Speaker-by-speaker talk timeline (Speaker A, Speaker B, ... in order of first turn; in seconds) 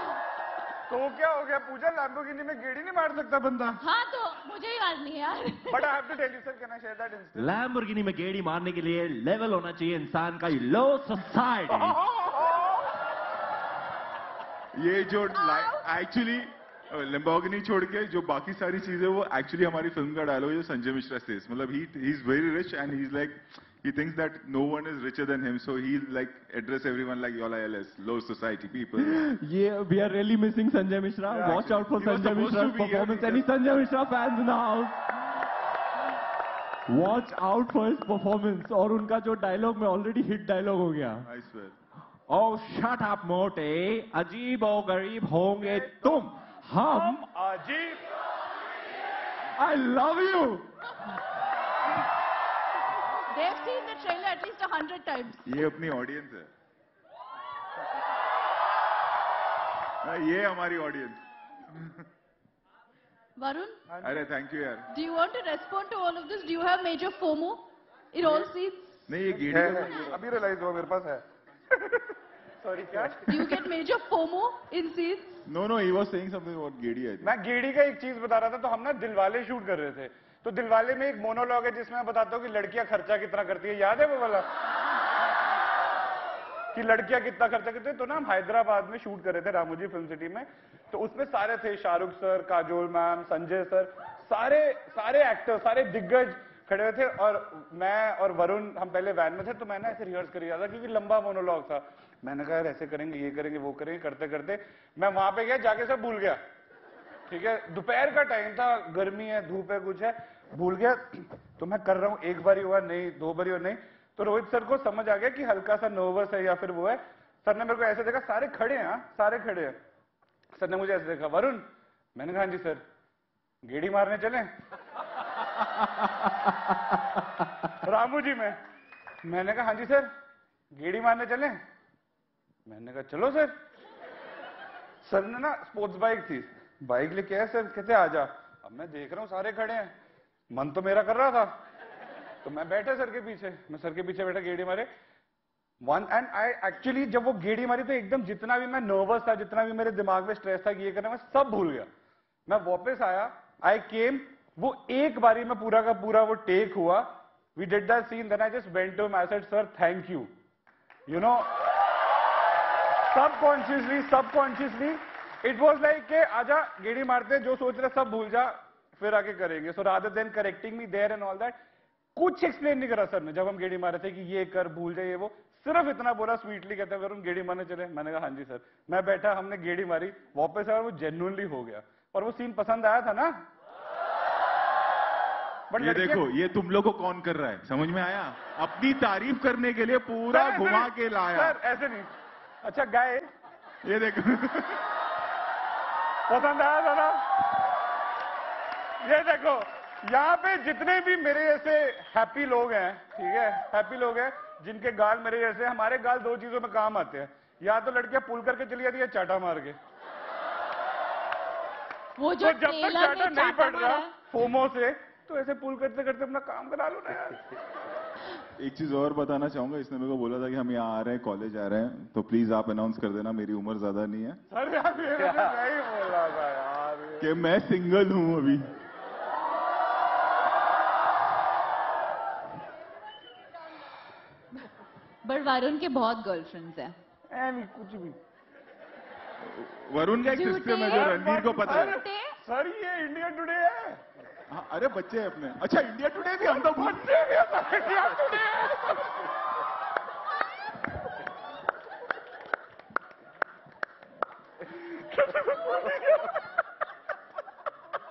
Speaker A: 0.9-3.8, 5.7-7.5, 12.2-12.5, 45.6-46.2, 46.9-48.0, 69.4-71.2, 72.6-73.6, 77.2-84.4, 86.7-106.4, 107.3-111.1, 111.6-119.8, 120.6-121.6, 122.2-122.8, 123.7-124.5, 127.9-128.5, 129.3-130.0, 130.8-131.5, 132.7-133.5, 135.1-139.9, 140.6-141.4, 142.5-144.8, 145.9-151.8, 152.5-157.0, 157.6-160.2, 161.1-161.4, 163.2-164.9, 165.4-168.5, 169.1-171.5, 172.3-180.8, 181.4-183.2, 190.4-190.9, 191.4-192.0, 192.7-193.2, 196.3-197.0, 200.2-207.0, 207.8-209.7, 212.5-217.0, 224.5-227.2, 241.4-241.9, 242.5-243.6, 246.9-248.8
Speaker B: 3.8-6.0, 15.3-15.8, 212.2-214.2, 235.2-236.9, 240.2-242.4
Speaker C: 7.3-12.0, 29.0-35.0, 36.9-41.3, 42.3-47.2, 49.6-50.7
Speaker D: 14.7-29.3, 31.3-33.5, 41.2-41.8, 55.4-56.5, 60.0-62.0, 64.0-64.9, 69.1-70.2, 75.5-77.3, 185.8-191.6, 193.8-194.9, 218.6-224.4, 227.2-228.7, 239.4-242.0, 244.5-247.3
Speaker E: 53.3-55.5, 63.4-63.8, 64.9-69.0, 73.3-75.4